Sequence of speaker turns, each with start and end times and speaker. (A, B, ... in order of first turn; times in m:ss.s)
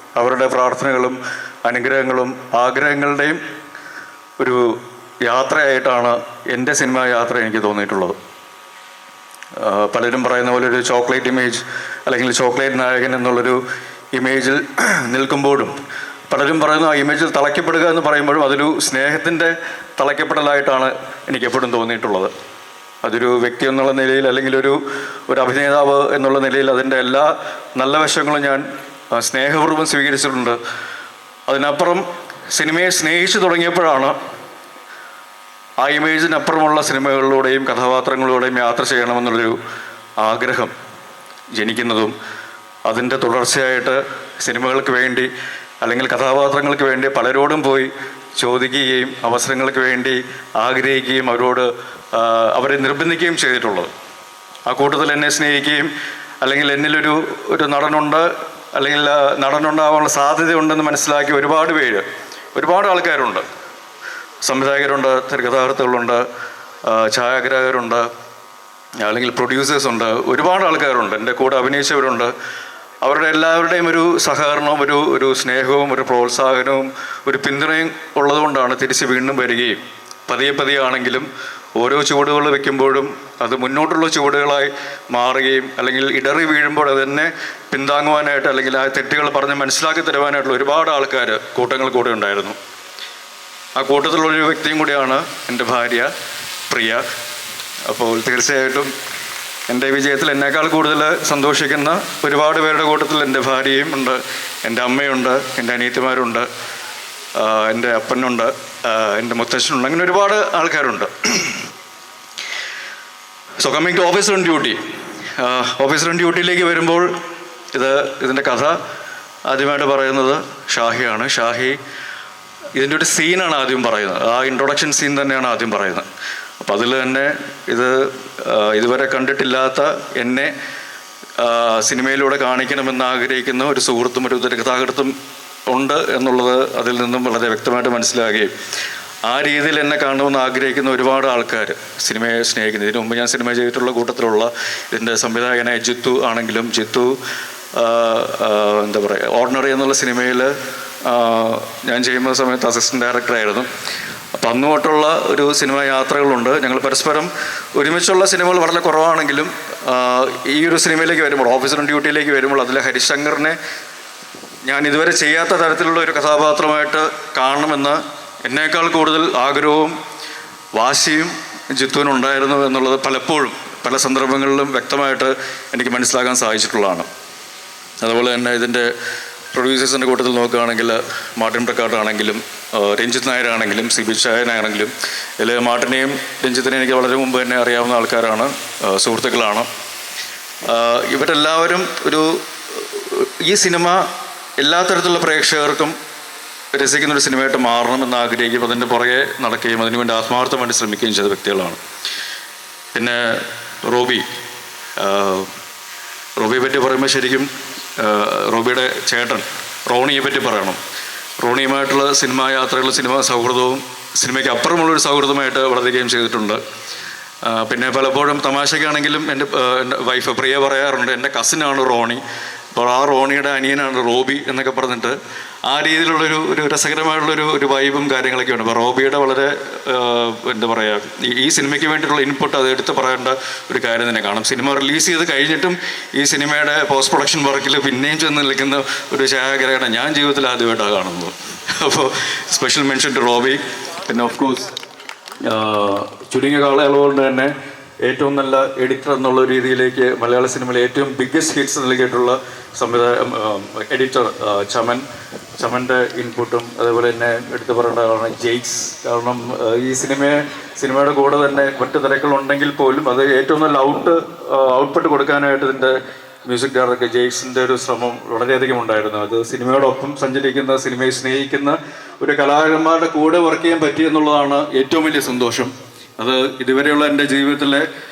0:00.2-0:03.4 A
0:04.4-0:08.2 A
0:09.6-0:13.6 A
0:14.1-0:15.7 A
0:16.3-0:22.3 A
0:23.0-0:30.6 A
0:31.5-0:34.2 A
0:35.8-0:39.5 A
0:40.2-0:40.7 A
0:41.6-0:42.1 A
0:42.8-0:45.3 A
0:45.8-0:53.9 A
0:54.7-1:03.4 A
1:04.4-1:06.2 A
1:06.8-1:08.1 A
1:09.0-1:12.3 A
1:13.0-1:32.6 A
1:33.8-1:36.1 A
1:36.7-1:37.0 A
1:37.8-1:38.9 A
1:39.7-1:46.5 A
1:47.4-1:51.6 A
1:53.6-1:54.8 A
1:55.4-1:57.1 A
1:57.7-1:58.8 A
1:59.5-2:01.8 A
2:02.7-2:06.0 A
2:06.6-2:10.5 A
2:11.4-2:15.1 A
2:15.7-2:18.5 A
2:19.2-2:27.2 A
2:27.7-2:33.7 A
2:34.3-2:43.6 A
2:44.6-2:49.9 A
2:50.7-2:57.1 A
2:58.0-2:58.9 A
2:59.5-3:09.7 A
3:10.7-3:15.9 A
3:16.7-3:21.8 A
3:22.9-3:24.2 A
3:25.0-3:25.5 A
3:26.4-3:30.8 A
3:31.4-3:36.6 A
3:37.4-3:42.2 A
3:42.7-4:04.7 A
4:05.4-4:15.0 A
4:15.6-4:37.9 A